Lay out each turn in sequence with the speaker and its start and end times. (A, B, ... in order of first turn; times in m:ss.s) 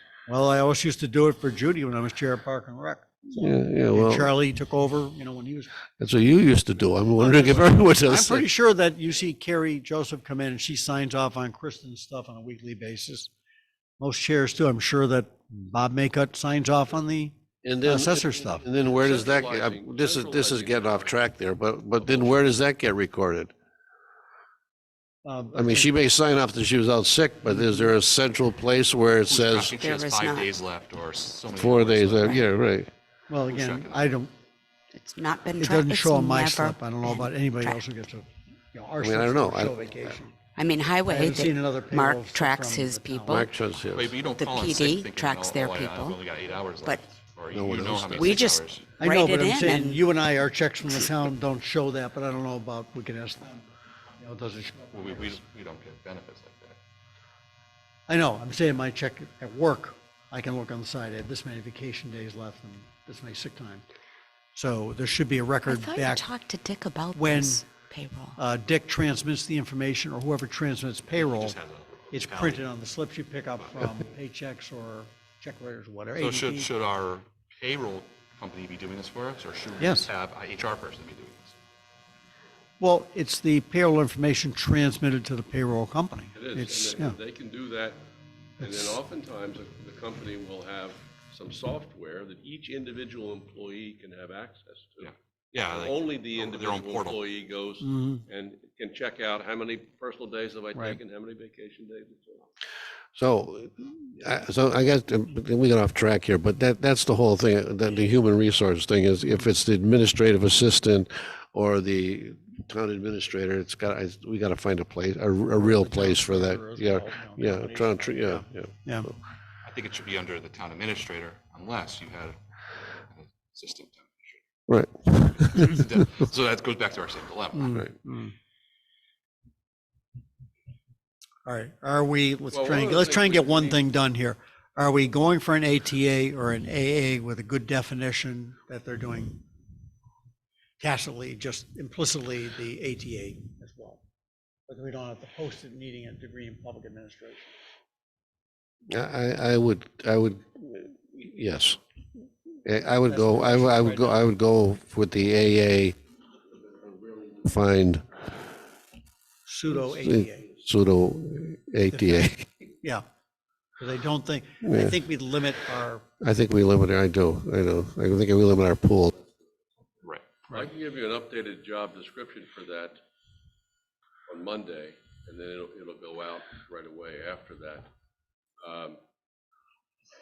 0:00.3-0:05.8 A
0:03.3-0:04.3 B
0:06.0-0:08.5 B
0:07.2-0:13.3 A
0:14.0-0:18.7 A
0:17.6-0:23.5 B
0:18.8-0:21.4 C
0:22.0-0:22.5 C
0:25.2-0:25.9 A
0:25.5-0:29.8 B
0:27.5-0:27.9 A
0:29.3-0:32.4 D
0:29.8-0:30.5 E
0:31.6-0:32.9 B
0:33.3-0:34.3 A
0:33.5-0:34.1 D
0:34.9-0:37.8 E
0:35.6-0:40.4 A
0:39.0-0:40.1 B
0:40.6-0:43.5 E
0:41.1-0:43.5 A
0:43.3-0:44.1 B
0:43.8-0:48.9 D
0:44.4-0:46.2 E
0:47.5-0:48.4 B
0:48.2-0:50.0 E
0:49.0-0:53.6 A
0:54.2-0:55.4 A
0:54.9-0:56.8 D
0:58.1-1:03.8 A
1:04.5-1:06.3 A
1:05.6-1:08.4 E
1:07.1-1:07.7 A
1:08.4-1:11.6 A
1:11.2-1:12.7 D
1:12.1-1:16.7 A
1:16.2-1:21.6 D
1:19.8-1:20.1 A
1:22.8-1:27.2 A
1:26.4-1:28.0 C
1:28.6-1:35.1 C
1:28.6-1:29.0 A
1:35.0-1:37.2 D
1:35.7-1:42.5 C
1:37.8-1:38.2 A
1:43.2-1:59.1 B
1:55.5-1:59.1 A
1:59.6-2:02.4 D
2:03.1-2:04.4 D
2:04.7-2:05.8 B
2:05.2-2:07.8 D
2:07.6-2:08.4 A
2:11.4-2:19.4 A
2:12.5-2:13.8 C
2:20.8-2:24.0 A
2:24.7-2:27.5 A
2:28.9-2:31.8 B
2:32.6-2:36.0 B
2:33.0-2:34.2 A
2:36.7-2:37.4 C
2:37.4-2:38.1 B
2:39.5-2:40.5 A
2:39.8-2:42.6 B
2:41.9-2:43.0 A
2:43.8-2:46.1 A
2:44.6-2:45.0 B
2:46.2-2:49.1 B
2:50.5-2:53.0 C
2:54.3-2:57.9 C
2:58.6-2:59.0 C